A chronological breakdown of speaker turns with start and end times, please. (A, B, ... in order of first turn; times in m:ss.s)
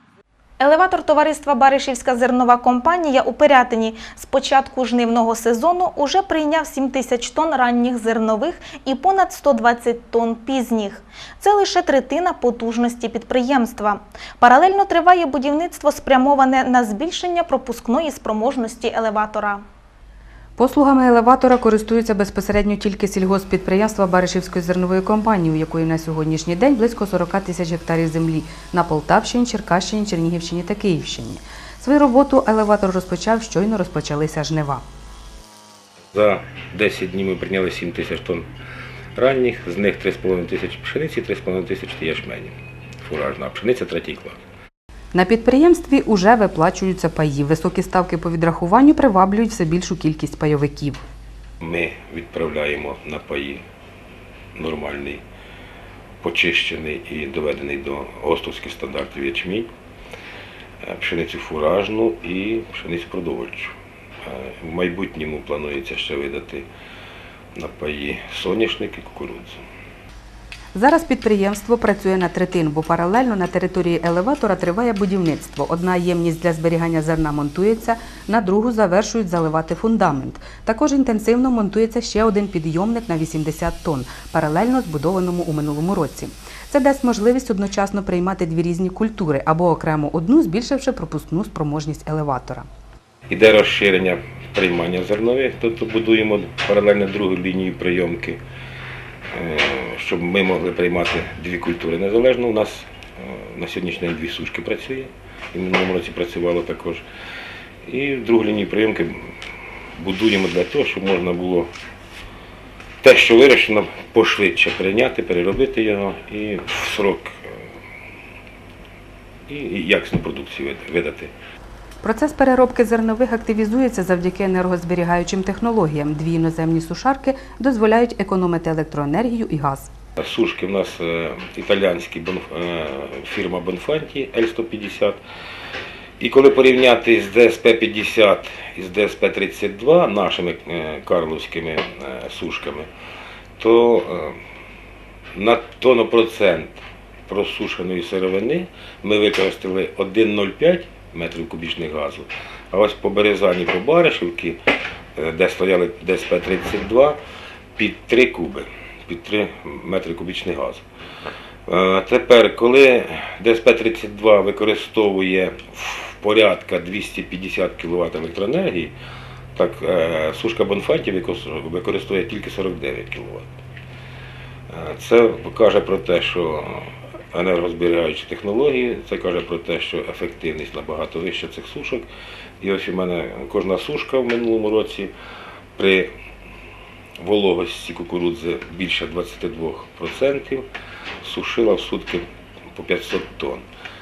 0:00.6-0:19.7 A
0:20.6-0:34.8 B
0:36.1-0:38.5 C
0:39.2-0:44.4 C
0:45.1-0:51.0 B
0:51.6-0:53.6 C
0:54.6-0:55.2 C
0:56.2-0:59.7 C
1:00.8-1:03.7 C
1:04.2-1:06.7 C
1:07.6-1:09.6 C
1:10.7-1:32.7 B
1:33.3-1:38.4 C
1:39.4-1:47.0 C
1:47.9-1:49.3 C
1:50.0-1:51.7 C
1:53.0-1:57.5 C
1:59.5-2:01.3 C
2:02.0-2:09.9 B
2:10.2-2:15.2 C
2:16.2-2:22.9 C
2:23.6-2:24.4 C
2:25.4-2:26.8 C
2:27.3-2:34.6 C
2:35.2-2:37.2 C
2:37.8-2:40.8 C
2:41.7-2:48.9 C
2:49.6-2:53.5 C
2:54.7-3:02.1 C
3:02.6-3:05.1 C
3:05.8-3:06.1 C
3:07.2-3:10.7 C
3:11.2-3:13.6 C